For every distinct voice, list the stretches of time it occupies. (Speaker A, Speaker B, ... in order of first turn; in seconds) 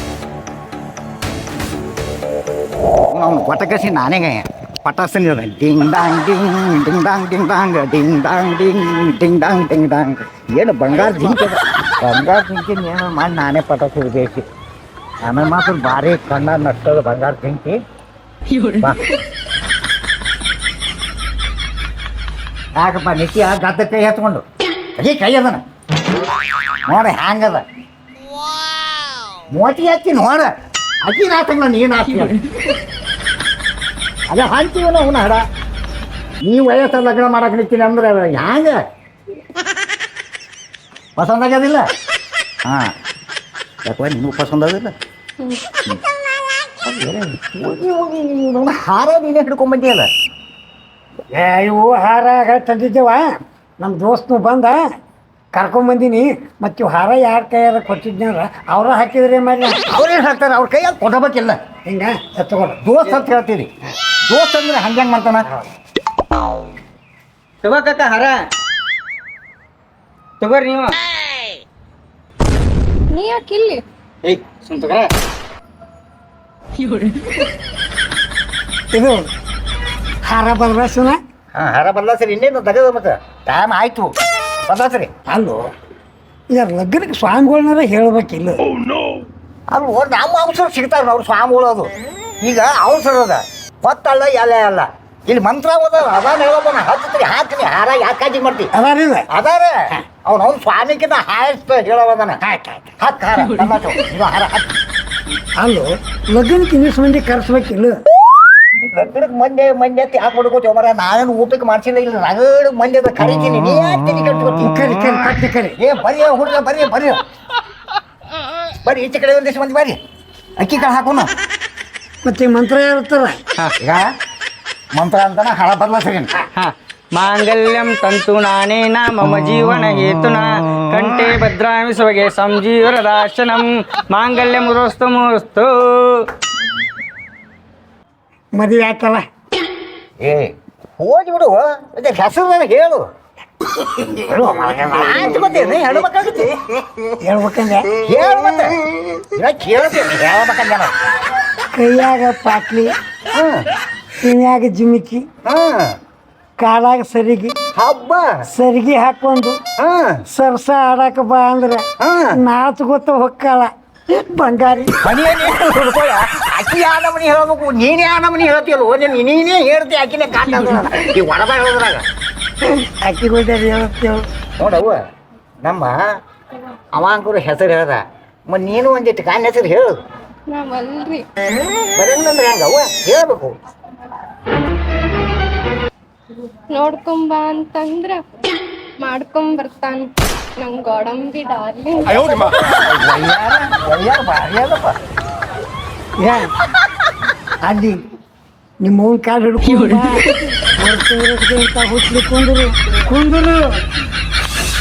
Speaker A: 3.1-14.4, 15.2-17.8, 22.8-24.4, 25.0-25.6, 26.9-27.6, 29.5-30.5, 31.1-32.4, 34.3-35.4, 36.5-38.8, 41.2-41.9, 42.7-42.9, 43.9-44.9, 46.8-50.1, 59.9-61.6, 62.8-63.7, 64.3-65.5, 81.6-84.1, 84.7-85.1, 89.7-91.9, 92.4-98.7, 99.3-102.4, 103.0-104.7, 108.8-114.7, 115.8-117.2, 118.8-120.0, 120.6-121.3, 123.8-124.1, 125.0-126.3, 140.2-143.1, 144.8-146.6, 148.0-148.8, 149.3-150.9, 153.3-153.6, 155.5-155.9, 157.8-158.3, 159.8-160.2, 162.0-162.4, 165.0-172.1, 174.6-175.0, 175.6-176.0, 177.0-179.9, 181.9-183.5, 192.1-194.9
Speaker B: 51.3-54.8, 55.5-59.8, 61.9-62.8, 78.9-79.2, 80.2-81.2, 85.3-85.6, 86.5-88.6, 98.7-99.3, 102.4-102.9, 105.6-108.0, 114.7-115.8, 122.2-123.4, 138.6-139.2, 144.3-145.1, 147.2-147.9, 151.7-152.9, 154.2-155.3, 156.6-157.6, 158.5-159.6, 160.3-161.8, 162.4-165.0, 173.0-174.2, 196.2-196.4, 197.7-198.0, 198.8-203.8
Speaker C: 67.6-68.4, 70.4-71.0, 74.2-75.1, 126.6-136.2
Speaker D: 73.1-73.8, 180.5-181.2, 186.7-188.2, 189.0-190.1, 190.6-192.2